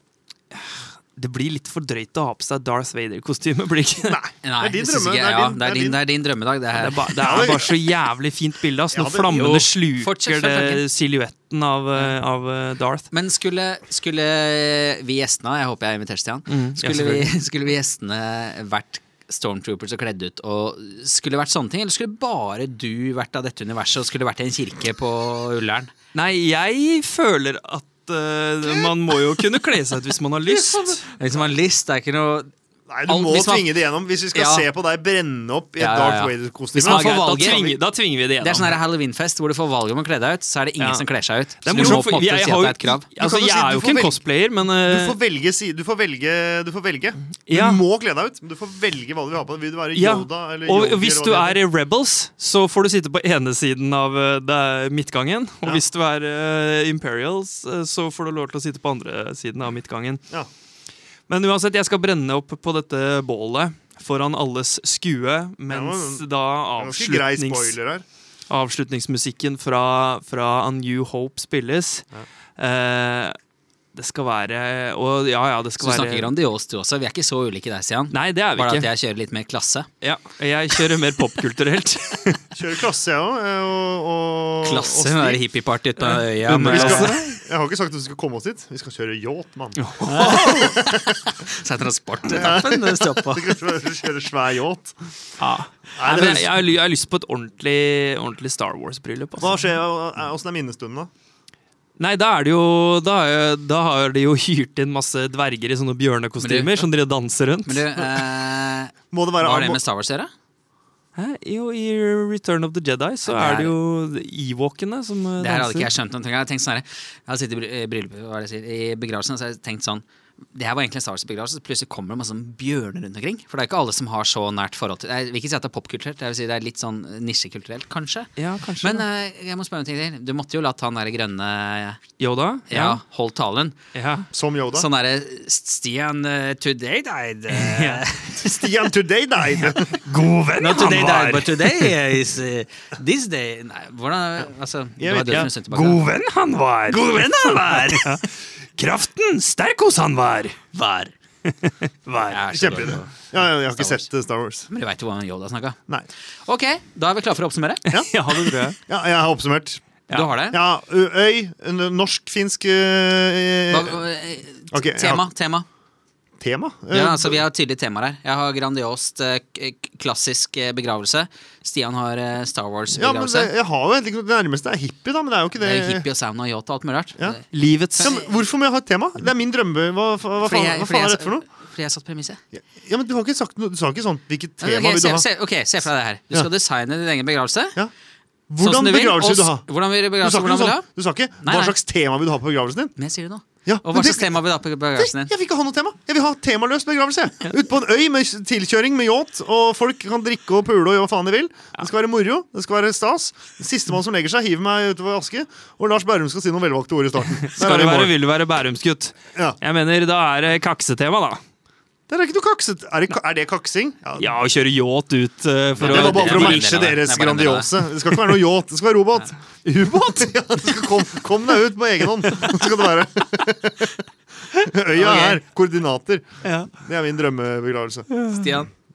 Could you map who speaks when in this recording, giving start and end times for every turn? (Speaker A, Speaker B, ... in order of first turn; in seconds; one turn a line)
Speaker A: 0.5-4.2
Speaker B: 4.0-6.0
Speaker C: 4.4-7.2
Speaker A: 6.7-13.1
Speaker B: 7.2-8.0
Speaker B: 8.9-9.5
Speaker C: 9.3-10.8
Speaker C: 13.1-25.9
Speaker A: 16.5-17.3
Speaker A: 26.1-31.1
Speaker B: 30.5-30.9
Speaker C: 31.1-32.5
Speaker B: 32.9-37.8
Speaker C: 33.1-33.8
Speaker C: 34.3-34.7
Speaker C: 35.8-37.6
Speaker A: 36.8-38.8
Speaker C: 38.4-43.1
Speaker A: 40.8-41.0
Speaker A: 41.6-45.2
Speaker B: 41.7-42.0
Speaker B: 43.2-51.6
Speaker A: 47.5-47.8
Speaker A: 49.9-60.2
Speaker A: 61.3-67.8
Speaker B: 65.7-68.0
Speaker A: 68.5-72.0
Speaker A: 72.6-73.3
Speaker A: 73.9-76.3
Speaker C: 75.8-79.9
Speaker A: 78.1-78.9
Speaker A: 80.0-82.4
Speaker B: 82.5-85.4
Speaker C: 84.6-87.2
Speaker A: 86.0-87.4
Speaker B: 86.6-91.1
Speaker A: 89.8-90.8
Speaker C: 90.0-93.5
Speaker B: 92.3-94.9
Speaker A: 95.4-99.6
Speaker B: 96.0-96.6
Speaker B: 99.4-101.1
Speaker A: 102.0-107.8
Speaker C: 106.4-106.8
Speaker C: 107.7-110.3
Speaker B: 109.1-109.8
Speaker A: 111.2-115.9
Speaker C: 113.2-113.7
Speaker C: 115.4-132.0
Speaker A: 128.4-129.1
Speaker A: 132.2-133.0
Speaker C: 132.7-133.8
Speaker A: 133.9-134.3
Speaker B: 134.3-134.8
Speaker C: 134.7-138.7
Speaker A: 137.5-138.0
Speaker B: 138.4-140.0
Speaker A: 139.5-141.9
Speaker C: 140.6-146.0
Speaker B: 145.0-145.5
Speaker A: 145.3-150.7
Speaker C: 146.9-148.0
Speaker C: 150.7-151.1
Speaker A: 151.4-153.0
Speaker C: 152.3-154.1
Speaker B: 152.5-154.7
Speaker C: 154.7-155.8
Speaker C: 156.4-157.8
Speaker A: 157.9-158.8
Speaker B: 158.8-159.8
Speaker C: 160.1-160.6
Speaker B: 160.5-164.0
Speaker C: 163.7-165.7
Speaker B: 164.7-165.3
Speaker B: 166.4-167.4
Speaker C: 166.9-173.5
Speaker B: 172.9-176.1
Speaker C: 175.6-177.4
Speaker A: 177.5-178.2
Speaker B: 178.0-181.4
Speaker C: 178.0-178.3
Speaker C: 180.4-182.4
Speaker B: 182.5-185.3
Speaker C: 184.6-187.8
Speaker B: 188.5-192.9
Speaker C: 188.6-190.8
Speaker C: 191.4-191.8
Speaker C: 192.9-195.3
Speaker B: 193.6-208.1
Speaker A: 207.5-211.4
Speaker B: 212.1-214.3
Speaker A: 214.2-216.9
Speaker B: 215.8-224.0
Speaker C: 215.8-217.8
Speaker B: 224.5-226.2
Speaker C: 224.9-225.4
Speaker A: 226.4-226.7
Speaker B: 226.8-228.1
Speaker A: 228.1-228.6
Speaker C: 228.3-228.7